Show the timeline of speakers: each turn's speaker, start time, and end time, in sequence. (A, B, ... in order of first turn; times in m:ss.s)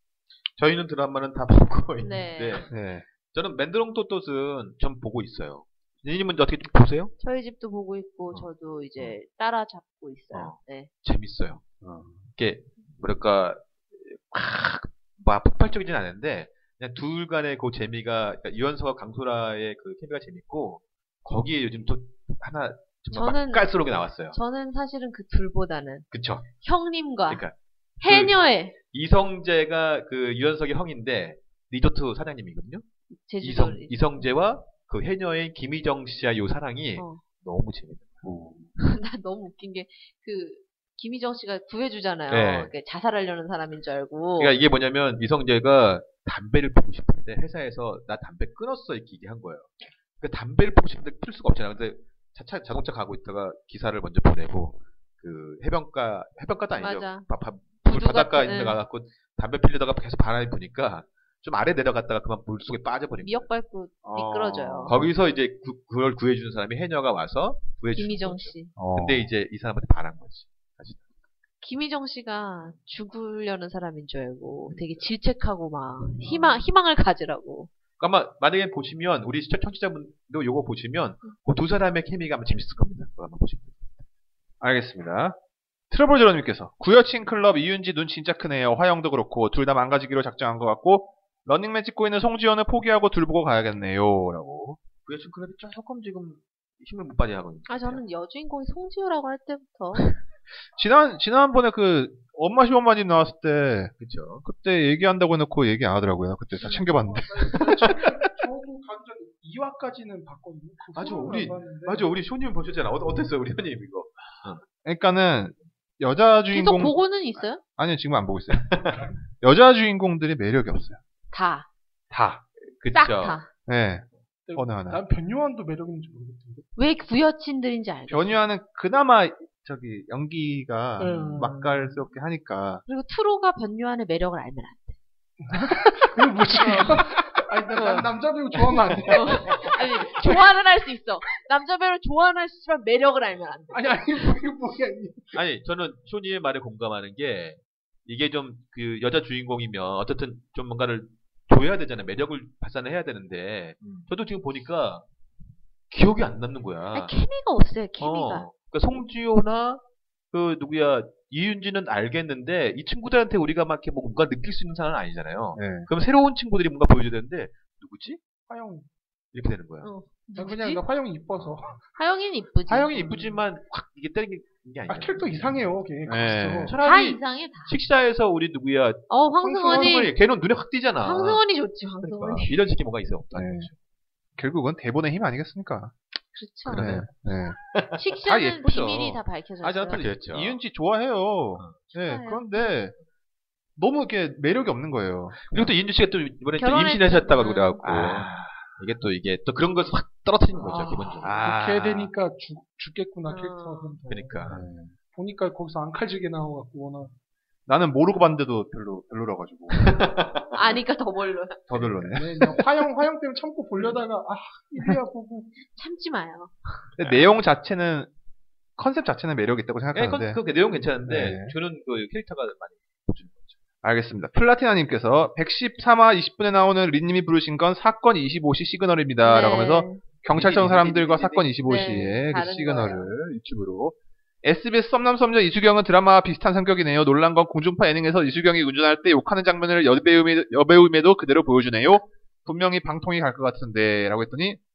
0:00.6-0:02.7 A
0:02.0-0:02.6 B
0:02.7-0:03.0 C
0:03.3-0:07.1 A
0:07.2-0:10.9 B
0:10.3-0:11.6 A
0:11.8-0:12.3 C
0:12.4-0:24.4 A
0:23.1-0:26.0 B
0:26.1-0:26.5 A
0:26.6-0:27.4 B
0:27.3-0:32.8 A
0:28.0-0:28.7 B
0:33.1-0:34.0 B
0:33.4-0:38.2 A
0:38.2-0:38.7 C
0:38.8-0:44.6 B
0:42.3-0:42.7 A
0:44.4-1:03.5 A
0:56.8-0:57.3 B
0:57.8-0:58.8 B
1:03.2-1:05.0 B
1:04.0-1:05.1 C
1:04.8-1:11.1 A
1:08.0-1:08.7 B
1:08.8-1:09.3 C
1:11.6-1:17.7 B
1:14.7-1:15.1 A
1:16.2-1:16.6 A
1:18.0-1:24.0 A
1:24.6-1:25.4 C
1:25.9-1:34.8 C
1:35.0-1:38.0 A
1:37.7-1:40.1 B
1:40.8-1:43.9 C
1:44.0-1:44.4 A
1:44.4-1:48.3 C
1:46.6-1:52.1 D
1:50.9-1:54.6 A
1:54.8-1:57.0 C
1:56.5-1:57.6 B
1:57.6-2:01.0 C
1:58.5-1:59.1 A
2:01.3-2:01.7 B
2:02.1-2:02.4 C
2:02.6-2:03.4 A
2:02.9-2:03.5 B
2:03.7-2:05.0 C
2:04.5-2:06.7 D
2:06.8-2:08.4 B
2:08.1-2:12.8 C
2:11.0-2:12.0 D
2:11.0-2:11.3 A
2:12.9-2:15.0 B
2:15.4-2:20.4 D
2:16.6-2:16.9 B
2:17.7-2:18.1 B
2:19.1-2:24.0 B
2:23.7-2:25.4 D
2:25.3-2:35.0 A
2:35.9-2:37.2 A
2:36.9-2:38.5 B
2:38.0-2:48.2 A
2:45.5-2:45.9 C
2:48.5-2:48.9 D
2:49.3-2:49.9 A
2:49.8-2:50.8 B
2:50.4-2:51.8 D
2:52.0-2:53.3 B
2:52.7-2:55.7 A
2:54.9-2:56.8 D
2:56.0-2:56.7 C
2:56.6-2:59.1 A
2:56.8-2:57.7 B
2:59.1-3:00.1 B
2:59.4-3:00.0 D
2:59.6-3:01.4 A
3:01.0-3:02.6 B
3:02.0-3:03.7 A
3:03.3-3:03.7 C
3:04.4-3:05.9 C
3:06.3-3:06.9 B
3:06.7-3:07.1 A
3:06.7-3:07.6 C
3:07.7-3:08.0 A
3:08.0-3:10.1 B
3:08.2-3:09.2 C
3:09.6-3:10.6 A
3:09.9-3:12.9 C
3:11.9-3:12.7 B
3:13.8-3:15.7 C
3:15.4-3:21.4 A
3:16.6-3:17.8 B
3:17.8-3:18.4 C
3:20.6-3:22.1 C
3:20.7-3:21.1 B
3:21.4-3:24.6 D
3:23.3-3:24.0 B
3:24.1-3:24.6 A
3:24.5-3:24.9 C
3:25.1-3:27.1 D
3:27.7-3:30.0 C
3:29.7-3:30.8 A
3:30.5-3:31.6 B
3:31.7-3:32.6 C
3:31.7-3:32.3 A
3:32.1-3:35.6 D
3:35.7-3:36.8 B
3:37.0-3:38.1 C
3:38.8-3:40.4 C
3:39.9-3:43.6 A
3:41.0-3:41.5 C
3:43.8-4:04.6 C
3:49.2-3:50.0 B
3:50.3-3:52.1 A
3:51.7-3:53.1 B